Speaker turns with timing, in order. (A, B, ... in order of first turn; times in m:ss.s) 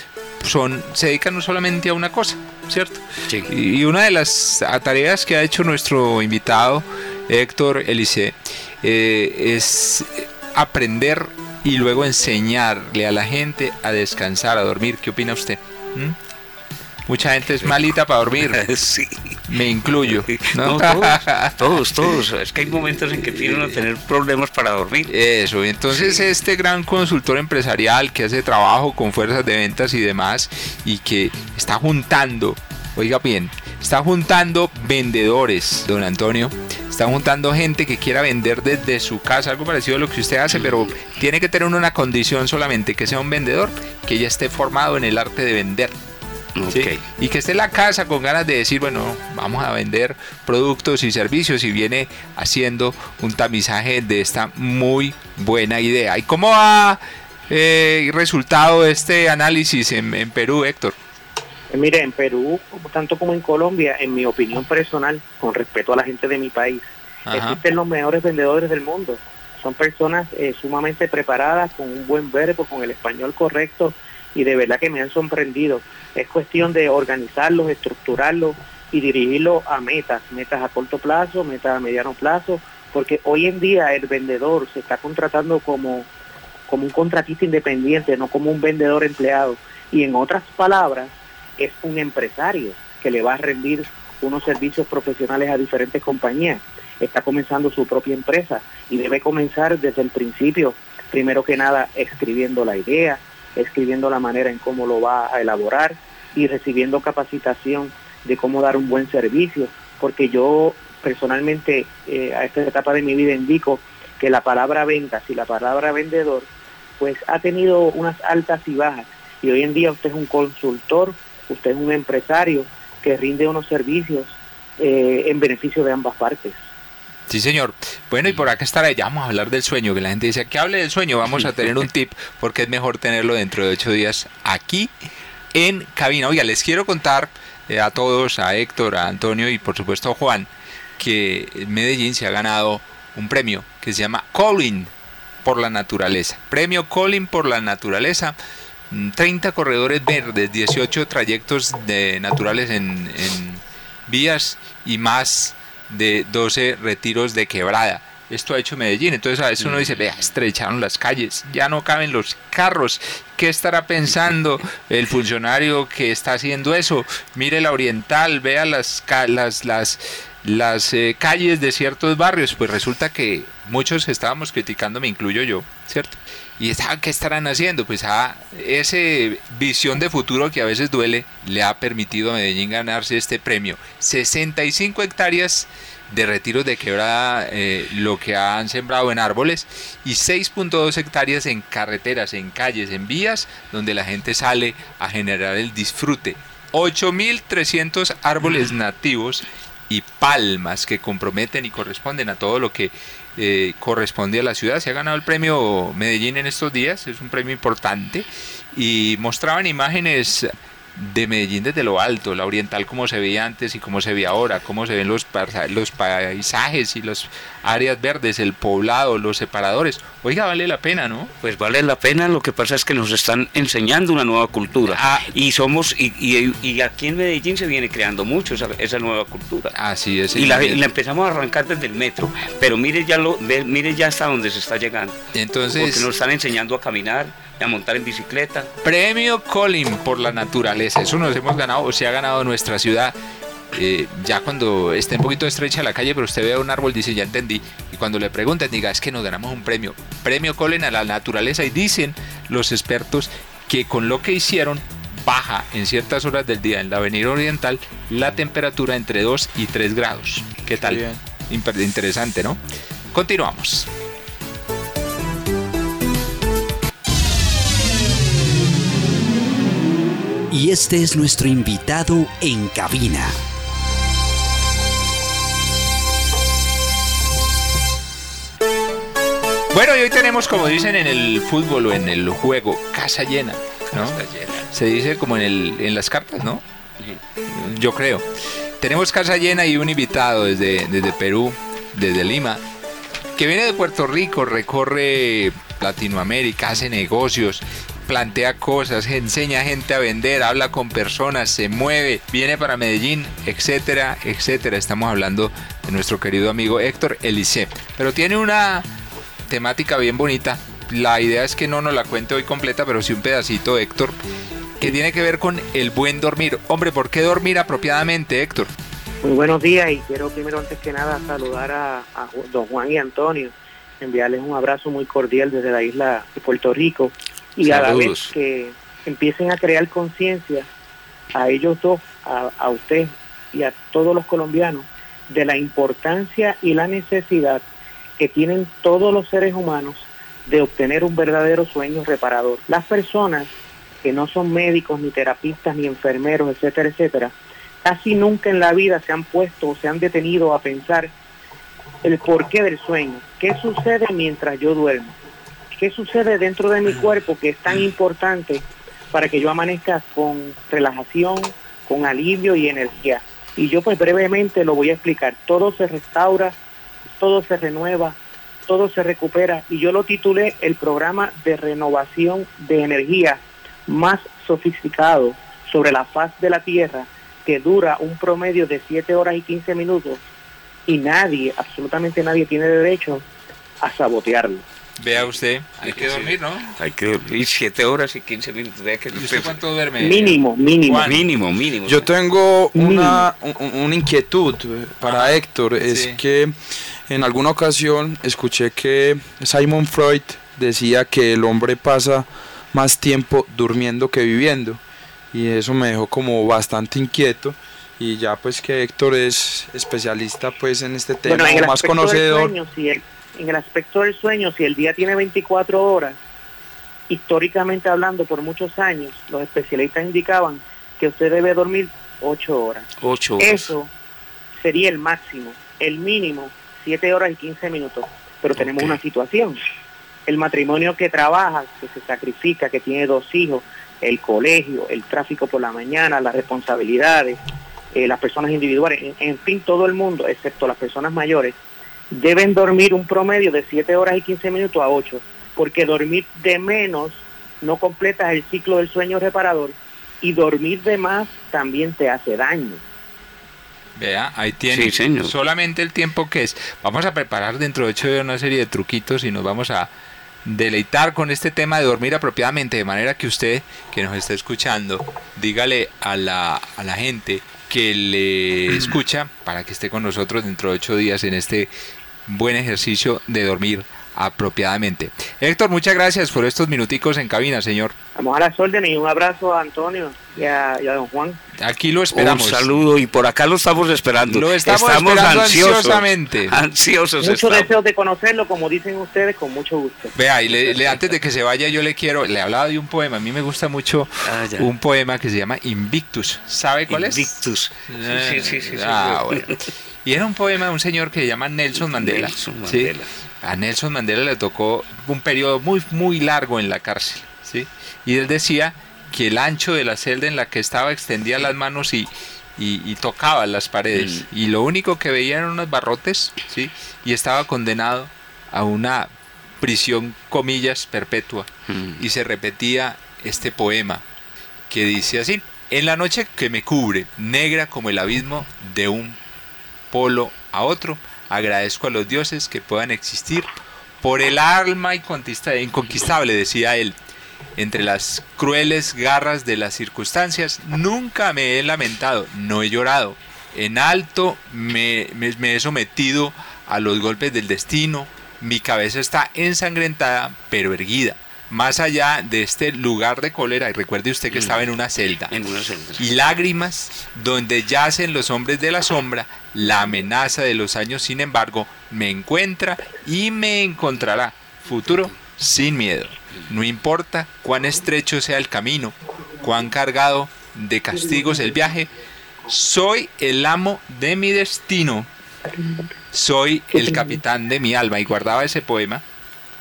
0:00.4-0:16.2 A
0:17.1-0:18.7 A
0:17.5-0:17.9 B
0:18.4-0:19.4 B
0:19.5-0:22.2 A
0:20.1-0:25.1 B
0:22.9-0:23.8 A
0:25.1-0:45.9 A
0:25.9-0:26.2 B
0:40.5-0:41.0 B
0:46.6-0:47.0 B
0:46.7-1:01.0 A
1:01.7-1:26.1 C
1:07.2-1:07.6 A
1:26.7-2:06.6 C
2:07.3-2:14.9 A
2:15.5-2:24.9 A
2:25.4-2:28.4 A
2:28.9-3:41.3 A
2:39.6-2:40.0 B
3:41.4-3:49.7 B
3:44.9-3:45.3 A
3:49.7-3:50.8 A
3:50.3-3:55.2 B
3:55.3-3:56.1 A
3:55.7-3:58.7 B
3:58.8-4:03.2 A
4:03.7-4:22.6 A
4:20.8-4:21.2 D
4:23.1-4:23.9 A
4:30.5-4:33.4 E
4:39.7-4:46.6 A
4:43.9-4:44.7 B
4:47.5-4:48.2 A
4:48.8-4:52.6 A
4:53.4-5:08.9 A
5:09.5-5:14.2 A
5:14.8-5:18.7 A
5:19.2-5:30.7 C
5:27.6-5:28.3 B
5:31.3-5:37.6 C
5:38.2-5:43.5 C
5:44.0-5:51.1 C
5:52.0-5:55.2 C
5:55.8-6:06.6 C
6:07.2-6:08.2 C
6:08.7-6:20.2 C
6:20.9-6:23.2 C
6:23.8-6:24.6 C
6:25.0-6:26.7 A
6:25.8-6:29.6 B
6:29.1-6:31.3 A
6:30.0-6:31.1 C
6:30.9-6:32.1 B
6:31.9-6:36.6 D
6:32.8-6:33.2 C
6:35.0-6:36.2 A
6:37.1-6:44.8 D
6:45.3-6:52.5 D
6:51.3-6:56.2 C
6:57.1-7:03.9 C
7:03.0-7:03.7 B
7:04.6-7:09.6 C
7:08.6-7:09.0 B
7:10.3-7:17.4 C
7:17.9-7:21.6 C
7:22.1-7:32.8 C
7:34.0-7:39.9 A
7:34.7-7:35.3 B
7:40.4-7:51.7 A
7:52.3-7:57.9 A
7:58.2-8:01.4 C
8:01.6-8:02.8 A
8:02.1-8:07.7 B
8:04.2-8:06.6 A
8:07.2-8:10.1 C
8:10.2-8:17.3 A
8:14.2-8:14.7 B
8:16.9-8:19.6 B
8:17.9-8:44.0 A
8:21.8-8:23.1 B
8:33.9-8:34.3 B
8:41.7-8:42.0 B
8:44.7-8:49.2 A
8:49.9-8:53.5 A
8:54.0-8:57.0 A
8:57.6-9:15.3 A
9:14.3-9:14.7 B
9:15.3-9:16.0 B
9:16.0-9:31.9 A
9:32.5-9:35.1 A
9:36.1-9:39.0 A